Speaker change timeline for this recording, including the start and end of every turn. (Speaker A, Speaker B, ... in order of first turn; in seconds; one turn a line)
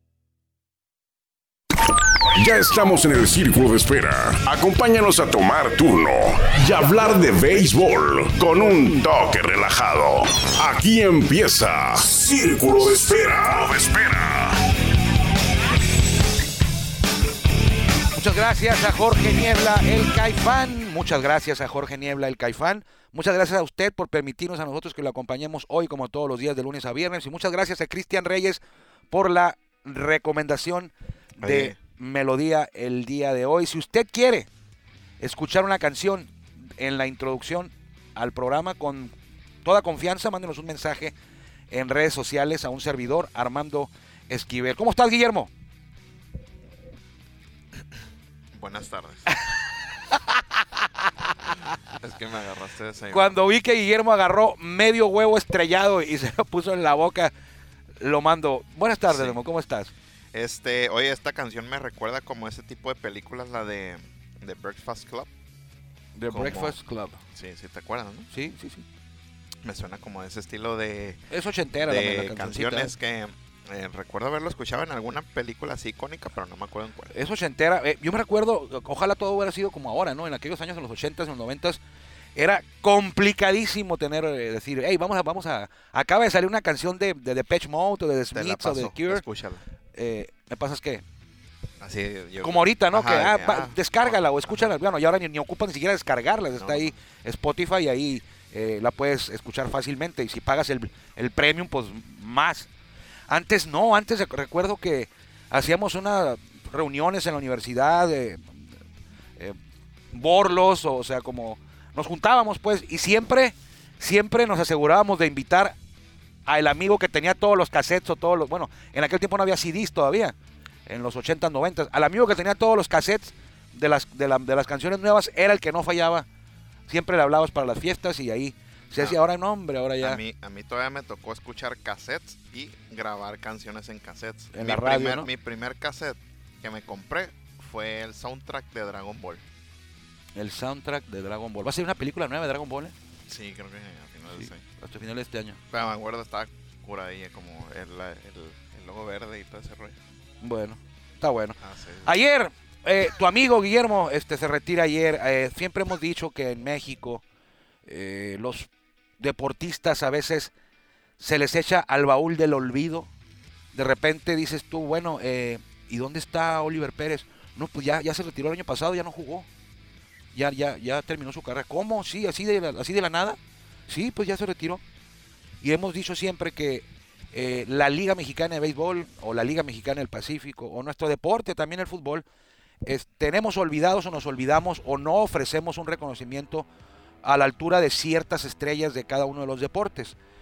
Speaker A: 2.3-14.6
Speaker B: 18.1-28.6
Speaker B: 29.1-34.5
Speaker C: 31.4-31.8
Speaker B: 35.2-39.1
Speaker B: 39.6-41.1
Speaker B: 41.7-45.5
Speaker C: 48.5-49.4
Speaker C: 52.0-53.4
Speaker B: 53.1-57.3
Speaker B: 58.0-59.9
Speaker C: 59.0-59.4
Speaker C: 60.3-65.3
Speaker B: 66.2-67.2
Speaker C: 66.3-66.8
Speaker C: 67.3-68.3
Speaker B: 68.3-68.8
Speaker C: 69.6-71.2
Speaker B: 71.3-72.9
Speaker C: 71.8-77.1
Speaker B: 77.1-81.8
Speaker B: 82.3-89.2
Speaker C: 88.3-89.6
Speaker B: 89.9-91.0
Speaker C: 91.8-94.7
Speaker B: 92.4-102.7
Speaker C: 96.6-96.9
Speaker B: 103.3-108.6
Speaker B: 110.1-115.8
Speaker B: 116.5-120.3
Speaker B: 120.9-126.2
Speaker B: 126.9-130.2
Speaker C: 130.0-139.4
Speaker B: 134.5-135.3
Speaker B: 140.3-142.9
Speaker C: 143.3-144.6
Speaker B: 144.4-145.6
Speaker C: 145.7-150.0
Speaker B: 150.4-157.2
Speaker C: 151.6-152.1
Speaker B: 157.8-160.5
Speaker B: 161.2-163.1
Speaker B: 163.7-169.5
Speaker B: 170.3-174.8
Speaker B: 175.6-182.2
Speaker B: 182.8-186.7
Speaker B: 187.2-190.1